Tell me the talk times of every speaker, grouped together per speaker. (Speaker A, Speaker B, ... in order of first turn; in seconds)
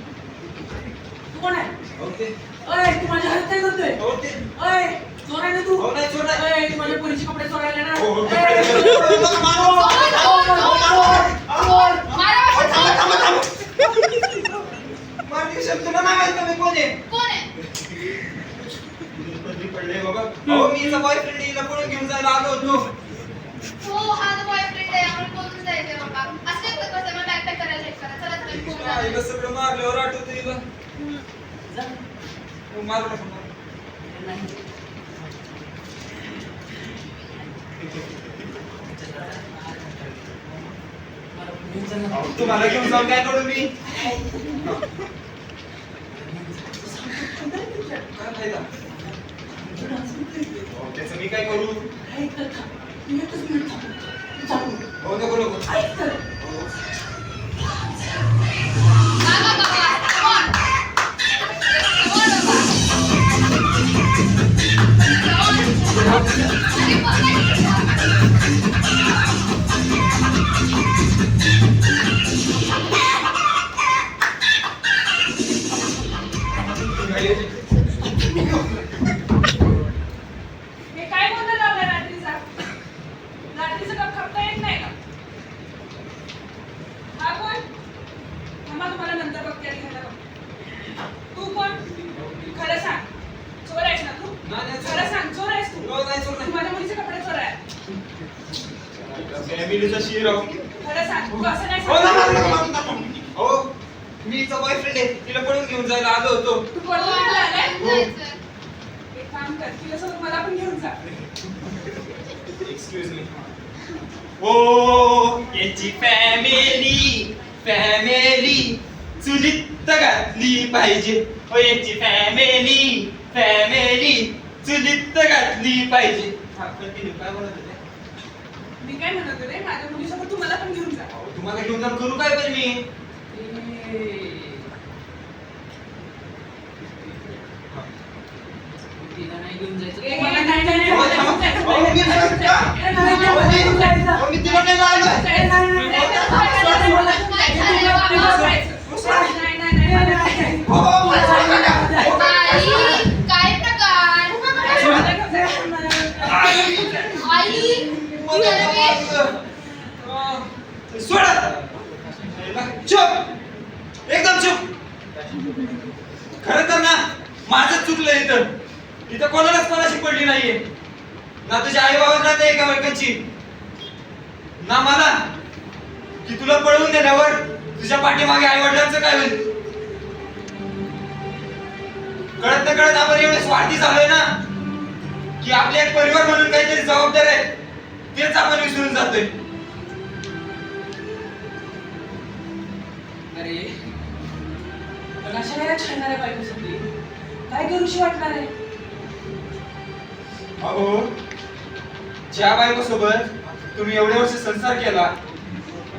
Speaker A: 1.3-1.7, 2.6-12.0, 30.9-32.0, 34.0-34.6, 37.2-37.5, 38.6-40.7, 41.3-43.1, 43.8-44.8, 46.1-48.0, 49.6-50.7, 52.0-54.8, 55.6-56.2, 66.0-66.5, 133.3-134.7, 138.9-144.3, 145.3-149.3, 149.9-153.0, 154.6-156.3, 193.3-193.8, 195.2-196.8, 197.5-198.5
Speaker B: 1.9-2.4, 4.0-4.4, 5.8-6.5, 8.0-13.6, 15.0-17.0, 18.9-22.9, 28.4-30.6, 32.7-33.5, 42.1-43.7, 44.6-44.9, 48.0-48.8, 50.7-51.8, 55.0-55.7, 56.4-56.7, 76.9-77.5, 94.4-95.1, 95.7-96.5, 99.0-100.6, 101.8-103.7, 104.2-106.7, 107.8-108.1, 112.5-113.5, 114.4-127.8, 131.1-132.8, 140.9-146.9, 148.2-149.3, 150.6-153.1, 156.2-159.3, 159.9-161.6, 162.2-163.3, 164.1-164.7, 166.4-168.5, 169.1-170.6, 171.4-173.2, 174.6-175.2, 176.2-179.4, 182.4-184.3, 185.4-187.5, 188.1-189.3, 200.6-201.1, 202.3-205.1
Speaker C: 9.7-13.4, 17.1-17.5, 23.8-29.2, 59.2-60.5, 61.4-62.8, 65.0-68.2, 106.8-108.4, 146.0-148.6, 152.0-155.1, 157.2-159.2
Speaker D: 80.9-82.7, 83.5-84.9, 87.1-87.6, 88.6-90.2, 91.3-93.1, 93.6-97.6, 100.8-102.6, 106.9-107.7, 109.1-111.0, 128.8-131.1, 140.0-141.7, 142.8-150.7, 154.5-157.3